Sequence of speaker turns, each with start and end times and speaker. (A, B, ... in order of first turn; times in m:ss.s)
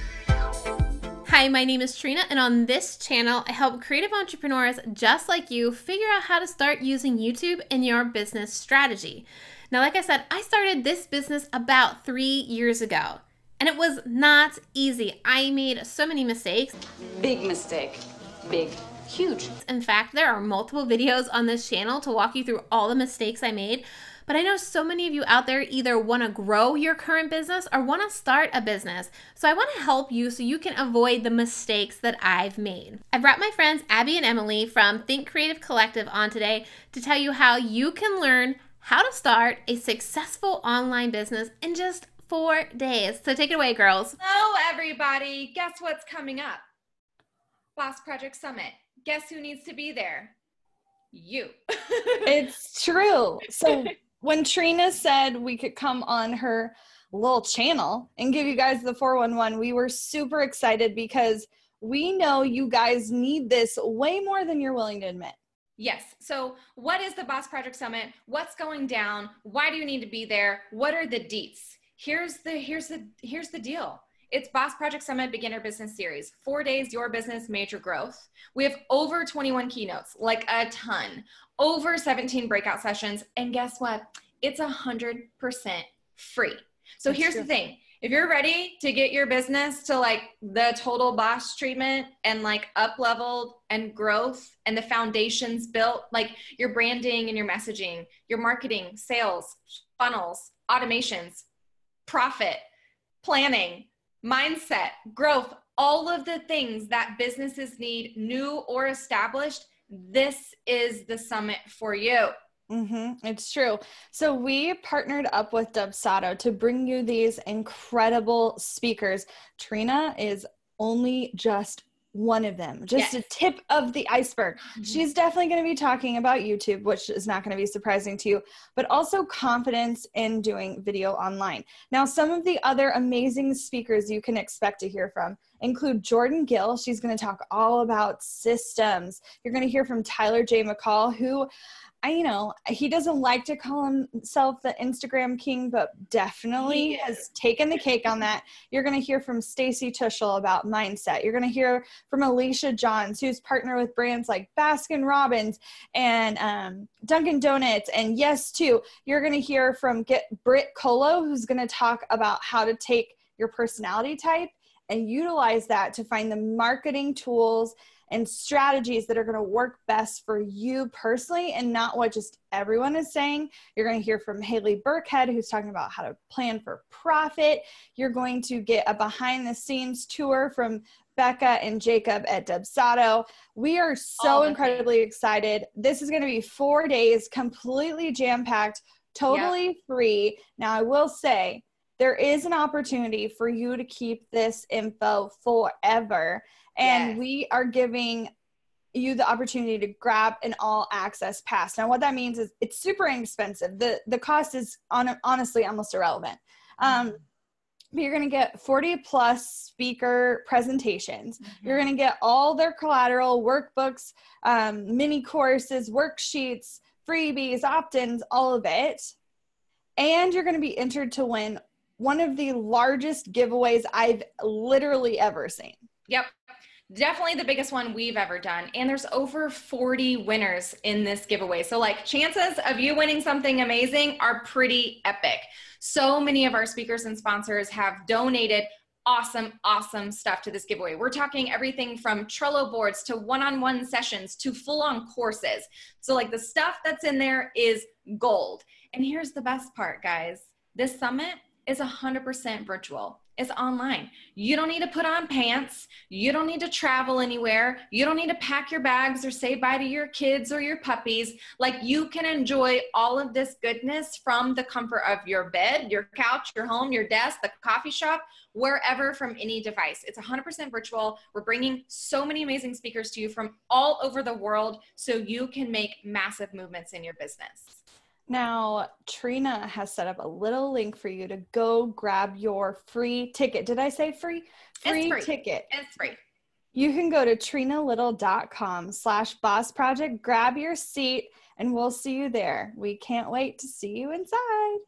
0:01.2-0:16.8 A
0:17.1-0:19.5 B
0:19.6-0:44.2 A
0:44.2-0:46.6 C
0:47.8-0:50.3 C
0:51.1-0:52.4 C
0:52.2-1:05.4 D
1:05.8-1:41.4 C
1:27.1-1:27.5 D
1:42.1-1:42.6 C
1:43.2-1:52.3 C
1:52.7-2:21.5 D
2:02.9-2:03.2 C
2:22.0-3:18.3 D
2:26.6-2:27.2 C
3:04.2-3:04.9 C
3:09.3-3:09.6 C
3:16.8-3:17.2 C
3:18.9-3:27.2 D
3:26.8-3:27.1 C
3:27.9-3:39.1 D
3:31.4-3:31.9 C
3:40.0-3:45.8 D
3:46.9-4:37.8 C
4:38.3-4:45.7 D
4:44.8-4:46.2 C
4:46.7-4:54.8 D